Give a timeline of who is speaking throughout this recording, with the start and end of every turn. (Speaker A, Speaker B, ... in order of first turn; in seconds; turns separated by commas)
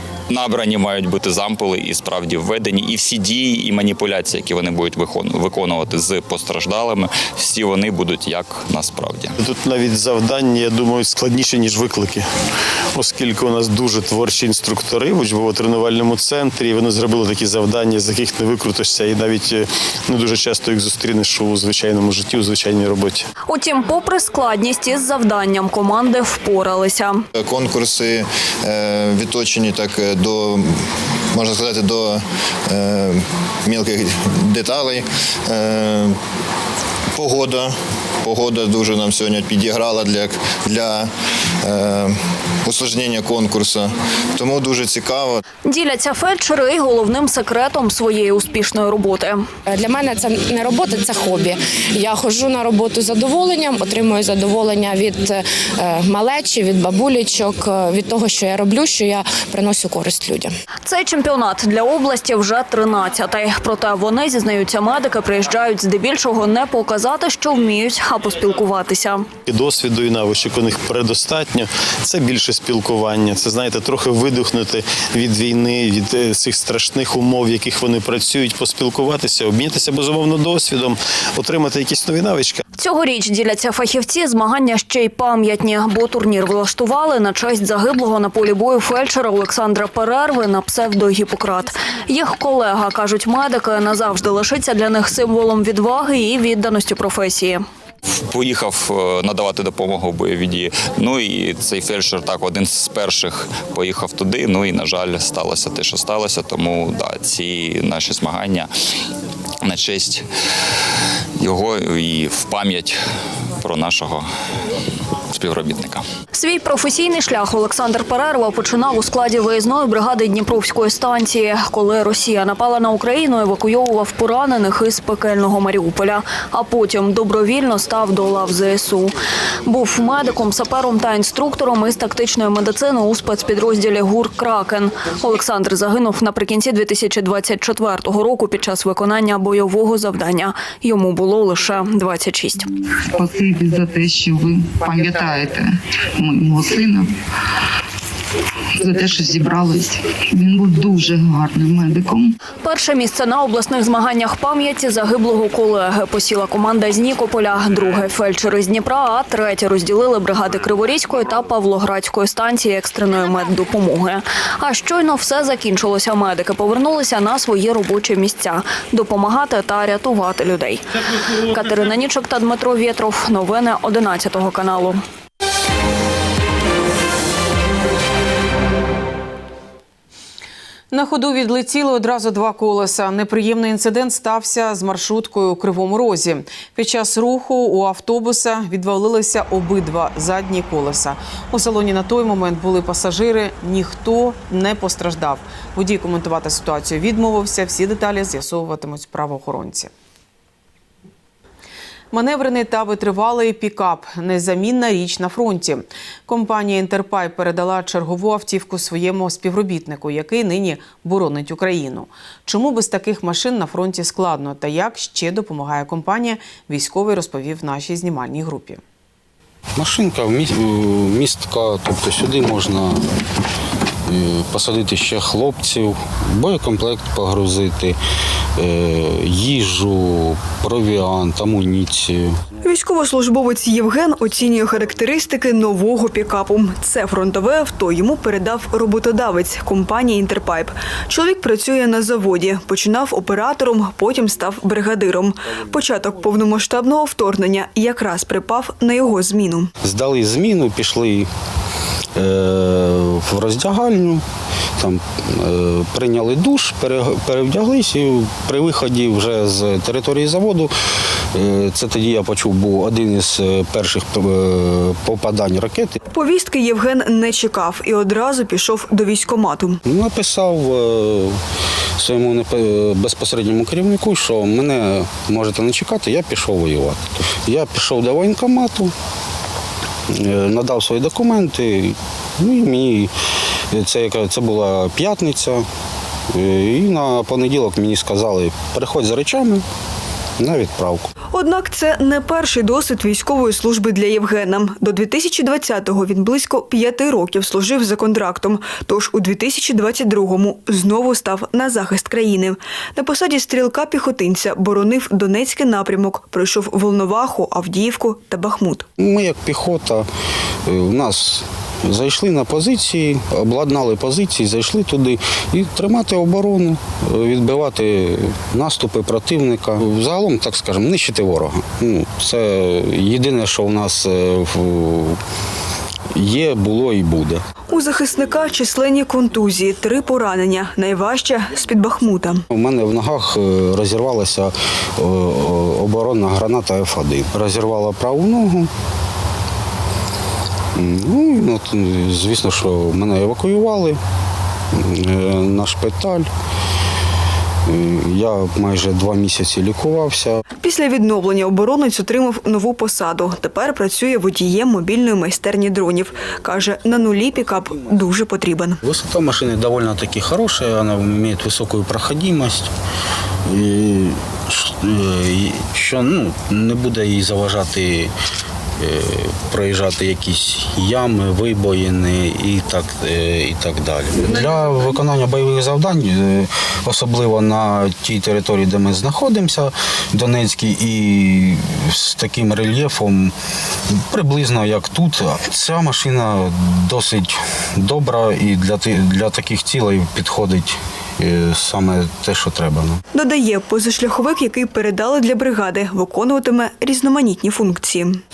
Speaker A: 0.3-9.3, Speaker B: 9.4-12.3, Speaker B: 12.9-23.3, Speaker C: 23.5-27.2, Speaker D: 27.3-36.2, Speaker D: 37.1-41.1, Speaker D: 41.6-45.4, Speaker C: 45.6-49.4, Speaker E: 49.7-60.5, Speaker C: 60.9-69.2, Speaker B: 69.5-82.6, Speaker C: 82.8-97.6, Speaker A: 98.3-108.7, Speaker A: 109.6-110.2, Speaker A: 111.4-113.0, Speaker A: 113.6-114.3, Speaker A: 115.3-116.0, Speaker C: 116.3-129.1, Speaker C: 129.7-142.6, Speaker F: 143.1-147.1, Speaker F: 148.8-152.3, Speaker C: 152.6-170.8, Speaker C: 171.4-175.0, Speaker G: 180.9-199.9, Speaker G: 202.1-218.8, Speaker H: 219.8-223.0, Speaker H: 224.1-228.0, Speaker H: 228.6-232.4, Speaker I: 232.6-249.7, Speaker H: 249.8-251.3, Speaker H: 252.1-254.2, Speaker H: 254.8-260.7, Speaker H: 261.3-266.0, Speaker I: 266.1-269.8, Speaker H: 269.8-271.4, Speaker H: 272.0-278.9, Speaker H: 280.1-283.1, Speaker H: 283.7-285.6, Speaker H: 286.3-289.6, Speaker H: 290.4-291.1, Speaker I: 291.3-308.9, Speaker H: 309.0-310.1, Speaker H: 310.6-325.2, Speaker H: 326.1-327.4, Speaker I: 327.7-332.4, Speaker H: 332.5-338.7, Speaker H: 340.7-344.0, Speaker H: 344.7-346.3, Speaker H: 347.6-350.4, Speaker I: 350.6-358.8, Speaker H: 358.8-362.7, Speaker H: 363.4-368.1, Speaker H: 368.8-383.3, Speaker H: 383.9-393.0, Speaker I: 393.1-398.2